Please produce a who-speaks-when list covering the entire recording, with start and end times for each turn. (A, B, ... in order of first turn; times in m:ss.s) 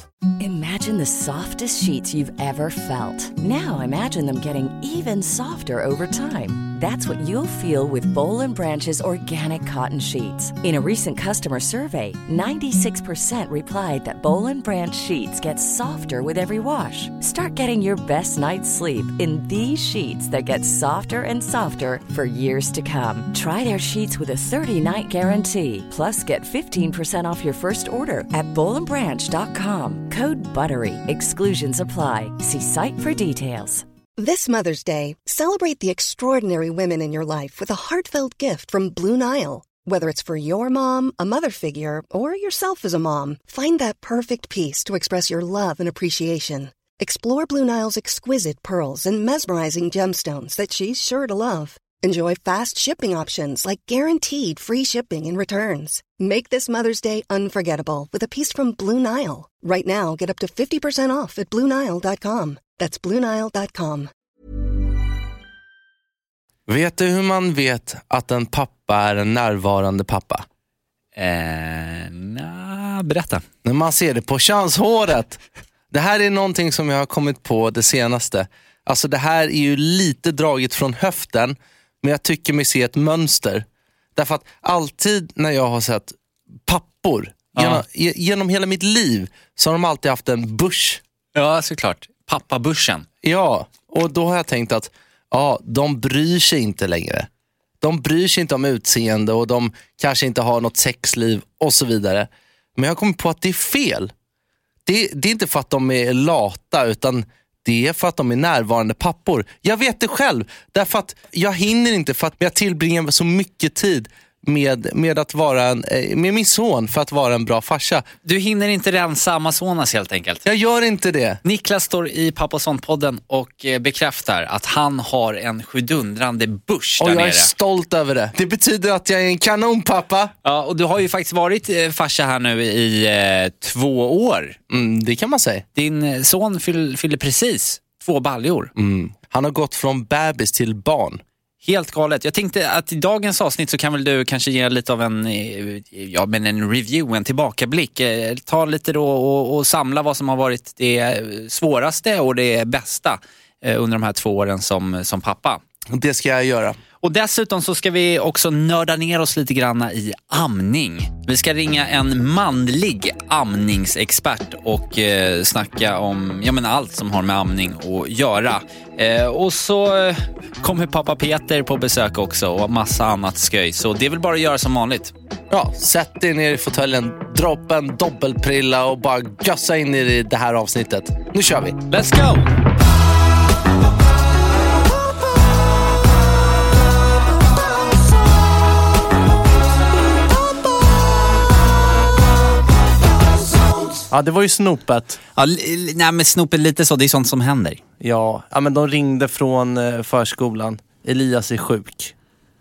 0:00.4-0:33.8 A
0:34.2-1:04.1 B
1:06.7-1:10.4 C
1:11.2-1:13.4 D
1:13.6-1:15.4 C
1:15.9-1:23.6 C
1:24.2-1:31.0 C
1:27.6-1:27.8 D
1:31.3-1:33.0 D
1:33.2-1:37.3 C
1:37.8-1:44.1 C
1:44.8-1:58.0 C
1:58.2-2:00.4 D
2:00.4-2:01.4 C
2:01.4-2:07.5 D
2:07.0-2:10.3 C
2:10.4-2:14.6 D
2:14.7-2:15.6 C
2:15.8-2:18.7 D
2:18.8-2:21.2 C
2:21.6-2:35.6 D
2:35.9-2:36.8 C
2:37.0-2:55.1 D
2:55.5-3:01.8 C
3:01.9-3:02.4 D
3:14.1-3:15.2 C
3:15.4-3:17.8 D
3:18.0-3:22.1 C